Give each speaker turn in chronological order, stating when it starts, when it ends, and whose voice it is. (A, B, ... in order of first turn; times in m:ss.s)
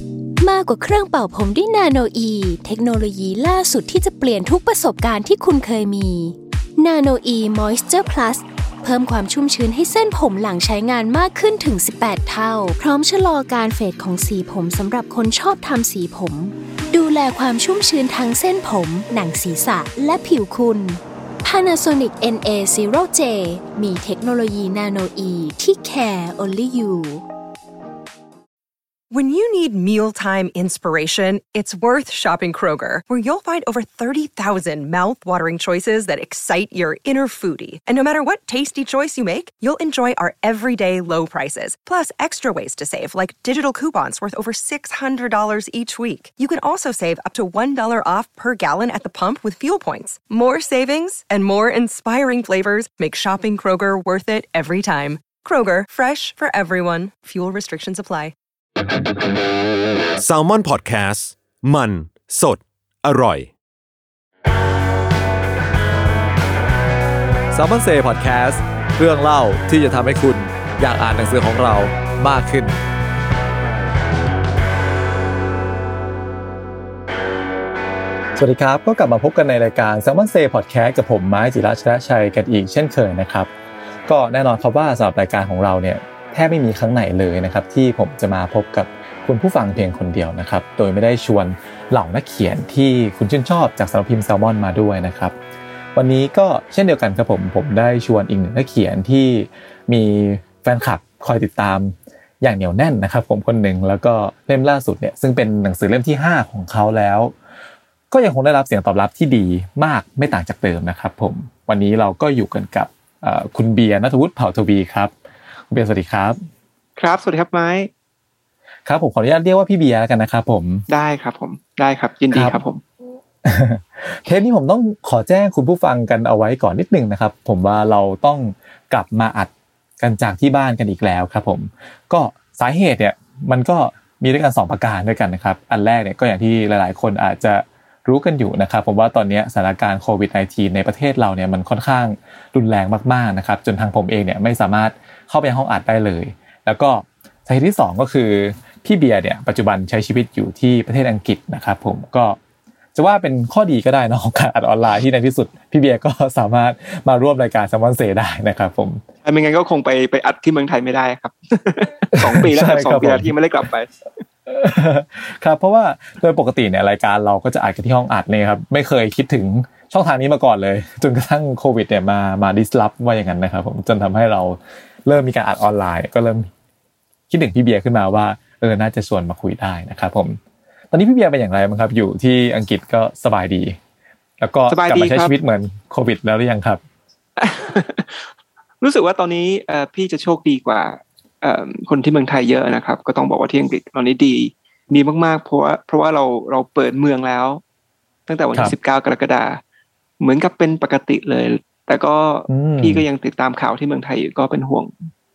0:00.4-0:27.2 A
0:29.1-0:58.3 B
1:00.2-1:03.5 C
1:07.5-1:12.8 D
1:18.4-1:23.5 D
1:24.1-1:35.4 D
1:36.0-1:47.4 D
1:48.1-1:55.1 D
1:55.7-1:56.4 D
1:57.0-1:57.9 E
1:58.9-2:00.9 D
2:00.9-2:02.8 E
2:02.3-2:02.6 D
2:03.4-2:32.4 D
2:32.9-2:39.0 D
2:39.2-2:43.9 E
2:42.2-2:43.3 D
2:44.4-2:56.5 D
2:57.3-3:00.4 D
3:00.9-3:03.8 D
3:04.4-3:06.8 D
3:04.7-3:05.3 E
3:07.4-3:17.6 E
3:18.3-3:19.6 E
3:20.2-3:25.1 E
3:22.5-3:23.0 D